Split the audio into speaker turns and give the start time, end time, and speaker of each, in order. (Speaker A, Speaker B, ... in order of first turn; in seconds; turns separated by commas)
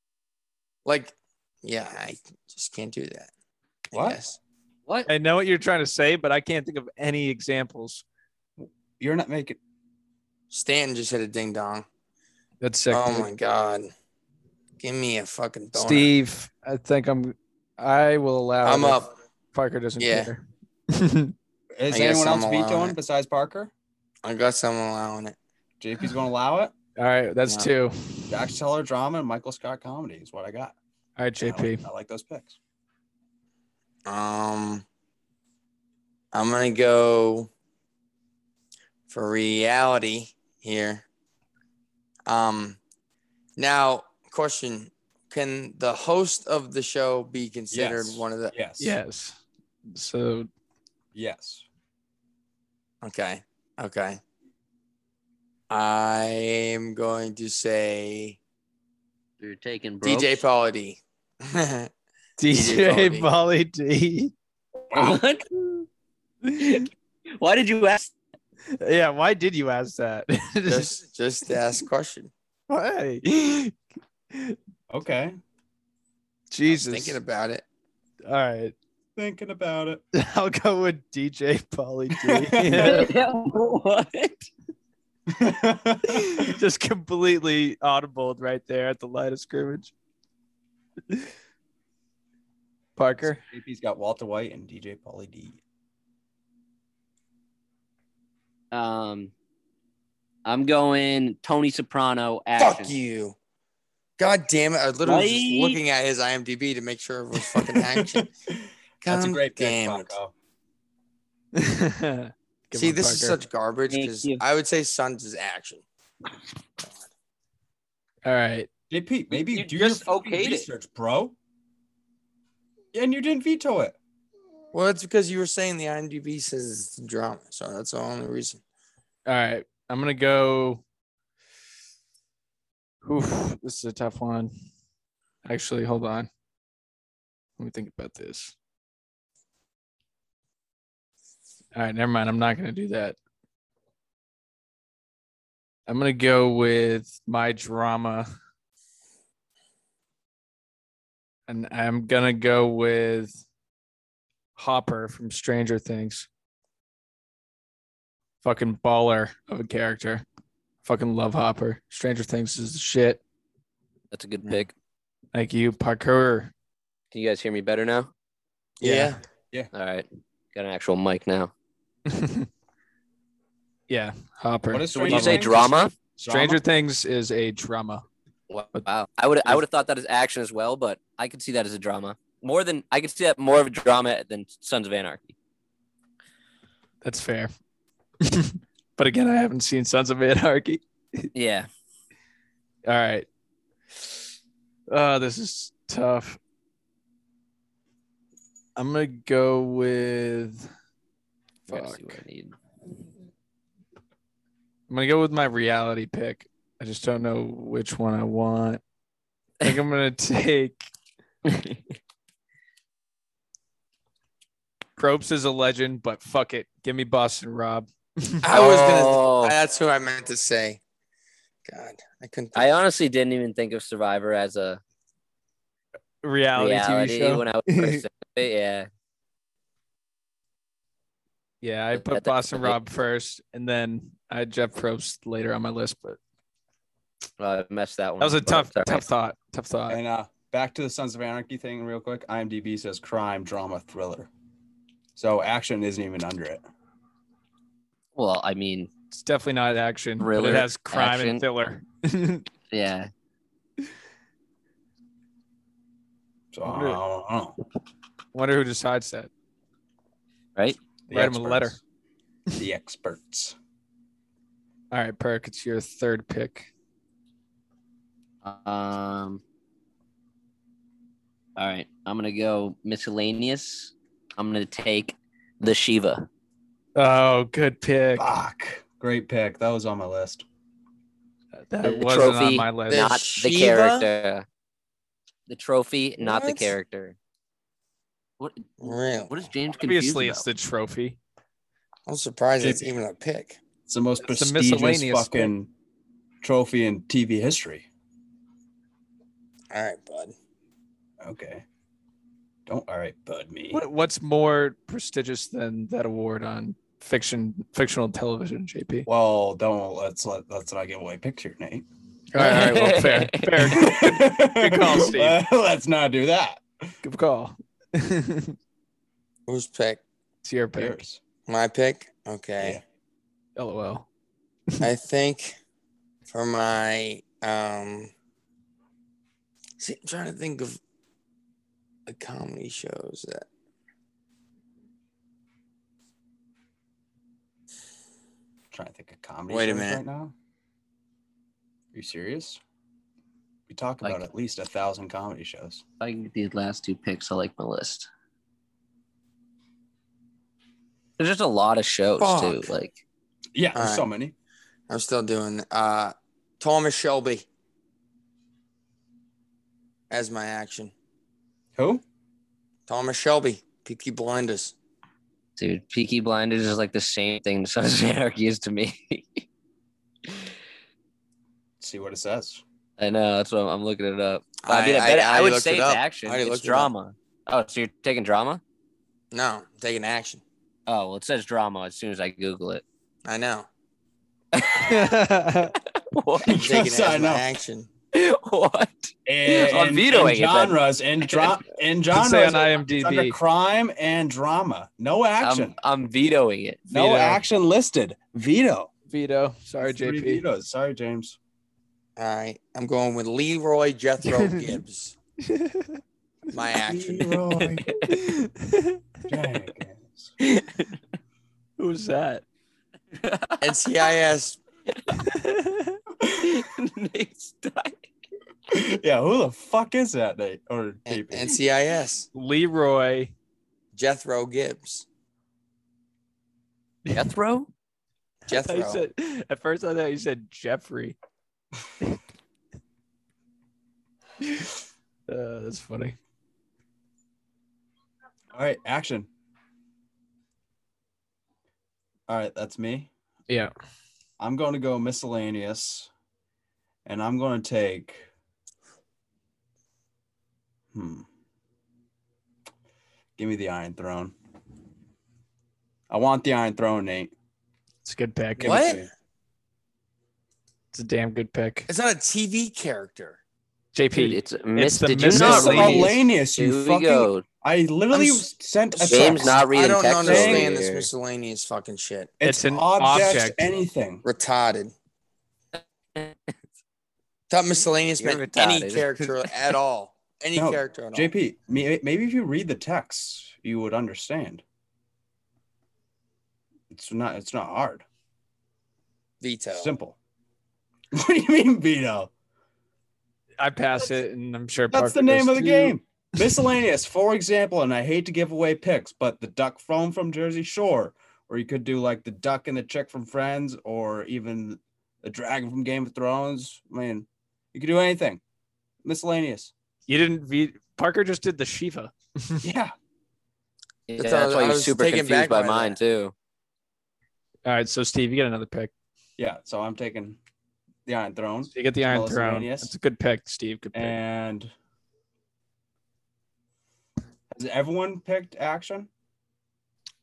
Speaker A: 0.8-3.3, Speaker A: 3.9-4.4, Speaker B: 3.9-4.2, Speaker C: 5.1-8.0, Speaker B: 8.6-9.6, Speaker A: 10.5-11.8, Speaker C: 12.6-13.3, Speaker A: 12.9-13.9, Speaker A: 14.8-16.1, Speaker C: 15.7-19.0, Speaker A: 18.6-19.1, Speaker C: 19.5-21.3, Speaker A: 20.0-20.3, Speaker B: 21.8-23.7, Speaker A: 21.9-23.0, Speaker A: 24.2-25.4, Speaker B: 25.8-26.7, Speaker C: 27.0-28.3, Speaker B: 28.3-30.7, Speaker C: 31.2-31.8, Speaker B: 31.4-32.6, Speaker A: 34.0-34.8, Speaker A: 36.3-37.5, Speaker A: 39.1-41.0, Speaker A: 42.3-42.8, Speaker A: 43.6-48.5, Speaker B: 47.7-49.0, Speaker C: 48.8-49.4, Speaker C: 49.9-50.5, Speaker B: 51.1-51.6, Speaker A: 53.0-54.2, Speaker A: 55.7-58.4, Speaker D: 59.4-60.4, Speaker A: 60.0-61.9, Speaker C: 62.4-64.3, Speaker A: 62.5-63.3, Speaker D: 64.9-65.4, Speaker B: 64.9-65.2, Speaker D: 66.5-66.9, Speaker D: 67.4-68.1, Speaker C: 68.8-71.0, Speaker A: 70.7-72.3, Speaker C: 72.7-73.7, Speaker B: 74.9-75.4, Speaker C: 76.5-77.2, Speaker A: 76.7-77.6, Speaker C: 78.3-78.7, Speaker B: 79.2-80.0, Speaker C: 80.1-83.1, Speaker B: 82.2-83.0, Speaker D: 82.7-84.5, Speaker B: 85.3-86.5, Speaker C: 86.1-89.9, Speaker C: 93.0-93.4, Speaker B: 93.2-95.6, Speaker D: 98.7-99.3, Speaker D: 100.4-103.0, Speaker A: 102.6-103.3, Speaker A: 104.2-108.3, Speaker D: 105.0-105.8, Speaker B: 107.5-108.5, Speaker A: 109.0-110.2, Speaker B: 109.1-110.3, Speaker C: 111.5-113.4, Speaker A: 112.7-115.8, Speaker D: 113.9-114.4, Speaker C: 118.2-118.7, Speaker B: 118.9-121.3, Speaker D: 119.3-120.7, Speaker B: 122.9-124.0, Speaker A: 124.7-128.6, Speaker C: 129.2-130.8, Speaker C: 133.0-134.5, Speaker C: 135.4-136.3, Speaker C: 137.6-138.5, Speaker C: 141.7-143.2, Speaker C: 145.9-148.3, Speaker C: 151.5-153.4, Speaker C: 154.6-156.3, Speaker C: 158.4-160.2, Speaker C: 160.8-163.2, Speaker D: 164.1-164.7, Speaker C: 165.3-166.5, Speaker D: 167.1-168.1, Speaker A: 168.8-169.2, Speaker C: 168.8-169.1, Speaker D: 169.7-171.5, Speaker C: 172.1-172.5, Speaker C: 173.9-175.5, Speaker B: 174.7-176.6, Speaker D: 174.9-175.9, Speaker C: 176.2-178.0, Speaker D: 178.5-185.3, Speaker C: 187.0-187.5, Speaker C: 188.2-191.3, Speaker D: 191.3-191.7, Speaker C: 192.8-193.2, Speaker C: 194.9-196.4, Speaker C: 198.8-200.7, Speaker C: 201.7-202.2, Speaker D: 201.7-202.6, Speaker C: 204.9-208.8, Speaker C: 209.6-210.8, Speaker D: 211.5-211.8, Speaker C: 215.0-218.4, Speaker A: 218.4-220.8, Speaker D: 218.5-219.6, Speaker A: 221.6-222.7, Speaker D: 222.5-224.8, Speaker C: 226.2-228.1, Speaker D: 226.6-228.9, Speaker C: 231.6-236.2, Speaker D: 231.9-232.8, Speaker D: 237.4-239.0, Speaker C: 238.2-240.0, Speaker B: 239.9-244.3, Speaker B: 245.2-246.6, Speaker D: 248.1-248.9, Speaker C: 249.1-252.4, Speaker D: 250.2-251.4, Speaker D: 252.7-253.1, Speaker B: 256.5-257.6, Speaker C: 256.6-257.0, Speaker C: 258.3-259.3, Speaker B: 261.1-261.8, Speaker C: 261.1-261.8, Speaker B: 262.6-263.5, Speaker C: 264.9-266.7, Speaker D: 268.4-269.4, Speaker D: 271.6-276.3, Speaker C: 276.9-278.3, Speaker B: 278.1-280.4, Speaker C: 281.7-283.1, Speaker D: 281.8-284.4, Speaker A: 282.9-284.1, Speaker D: 285.5-287.2, Speaker A: 286.2-286.7, Speaker D: 288.4-290.4, Speaker A: 288.8-289.4, Speaker C: 289.8-291.2, Speaker A: 292.1-293.6, Speaker B: 292.6-292.9, Speaker B: 293.9-295.7, Speaker C: 294.2-295.5, Speaker B: 296.4-297.9, Speaker A: 299.7-300.3, Speaker B: 301.2-301.6, Speaker B: 302.7-303.8, Speaker C: 303.7-309.1, Speaker B: 309.1-311.9, Speaker C: 312.3-315.4, Speaker D: 312.4-313.7, Speaker B: 313.6-316.6, Speaker C: 317.0-318.6, Speaker A: 319.5-320.0, Speaker C: 320.4-321.0, Speaker B: 320.8-321.2, Speaker A: 321.5-322.8, Speaker C: 323.6-324.1, Speaker A: 324.8-325.6, Speaker A: 326.3-328.1, Speaker A: 329.8-330.8, Speaker A: 332.1-333.5, Speaker B: 338.7-340.3, Speaker A: 339.5-340.0, Speaker B: 341.9-342.6, Speaker B: 343.7-345.8, Speaker D: 346.0-348.1, Speaker D: 351.2-352.9, Speaker A: 352.2-352.7, Speaker B: 353.5-354.3, Speaker A: 353.7-354.1, Speaker A: 354.9-357.4, Speaker A: 360.1-360.9, Speaker B: 361.8-362.0, Speaker A: 362.9-364.7, Speaker D: 365.6-369.4, Speaker B: 371.8-372.6, Speaker D: 373.0-378.6, Speaker A: 374.6-376.9, Speaker A: 379.3-380.4, Speaker D: 380.9-382.8, Speaker A: 383.2-383.7, Speaker D: 384.5-385.1, Speaker C: 384.8-385.7, Speaker D: 385.9-386.7, Speaker B: 386.4-387.4, Speaker A: 386.5-387.9, Speaker D: 388.1-391.6, Speaker B: 389.2-395.7, Speaker C: 392.1-393.4, Speaker D: 395.4-396.9, Speaker C: 396.9-397.4, Speaker B: 396.9-398.9, Speaker C: 399.1-400.4, Speaker B: 399.8-401.4, Speaker A: 402.2-405.1, Speaker C: 404.3-404.6, Speaker C: 405.5-406.0, Speaker A: 406.5-407.4, Speaker B: 406.8-408.0, Speaker C: 408.1-409.0, Speaker B: 409.3-410.3, Speaker C: 411.8-412.4, Speaker D: 413.2-413.7, Speaker A: 413.6-414.6, Speaker C: 415.2-416.0, Speaker D: 416.3-418.0, Speaker B: 418.7-421.6, Speaker A: 421.1-422.3, Speaker C: 422.3-423.3, Speaker A: 423.9-425.1, Speaker D: 427.1-427.7, Speaker A: 428.5-429.0, Speaker C: 428.5-431.1, Speaker C: 434.4-434.7, Speaker C: 435.3-436.1, Speaker B: 438.5-439.3, Speaker B: 442.3-443.1, Speaker B: 444.4-446.1, Speaker B: 447.0-448.3, Speaker B: 450.9-451.2, Speaker B: 453.4-454.3, Speaker B: 456.1-457.3, Speaker C: 458.0-458.8, Speaker B: 458.6-459.1, Speaker A: 458.6-459.0, Speaker C: 460.9-461.9, Speaker A: 461.9-463.4, Speaker C: 463.9-466.1, Speaker D: 464.1-467.4, Speaker B: 465.3-469.6, Speaker A: 468.1-468.4, Speaker A: 468.9-472.3, Speaker D: 469.1-471.1, Speaker B: 470.2-470.7, Speaker C: 472.4-473.8, Speaker B: 472.4-474.2, Speaker A: 474.2-474.9, Speaker D: 475.8-476.3, Speaker A: 477.5-481.3, Speaker D: 478.2-479.5, Speaker B: 480.6-484.6, Speaker B: 486.9-488.0, Speaker A: 489.4-489.9, Speaker B: 489.7-490.2, Speaker B: 491.1-492.3, Speaker C: 493.6-495.9, Speaker B: 494.9-508.4, Speaker B: 509.0-509.7, Speaker C: 510.1-512.6, Speaker B: 512.6-512.9, Speaker D: 514.1-516.3, Speaker A: 514.2-516.0, Speaker C: 517.6-518.9, Speaker B: 519.4-520.4, Speaker B: 521.0-522.9, Speaker C: 521.7-524.2, Speaker B: 523.9-524.7, Speaker B: 527.5-529.1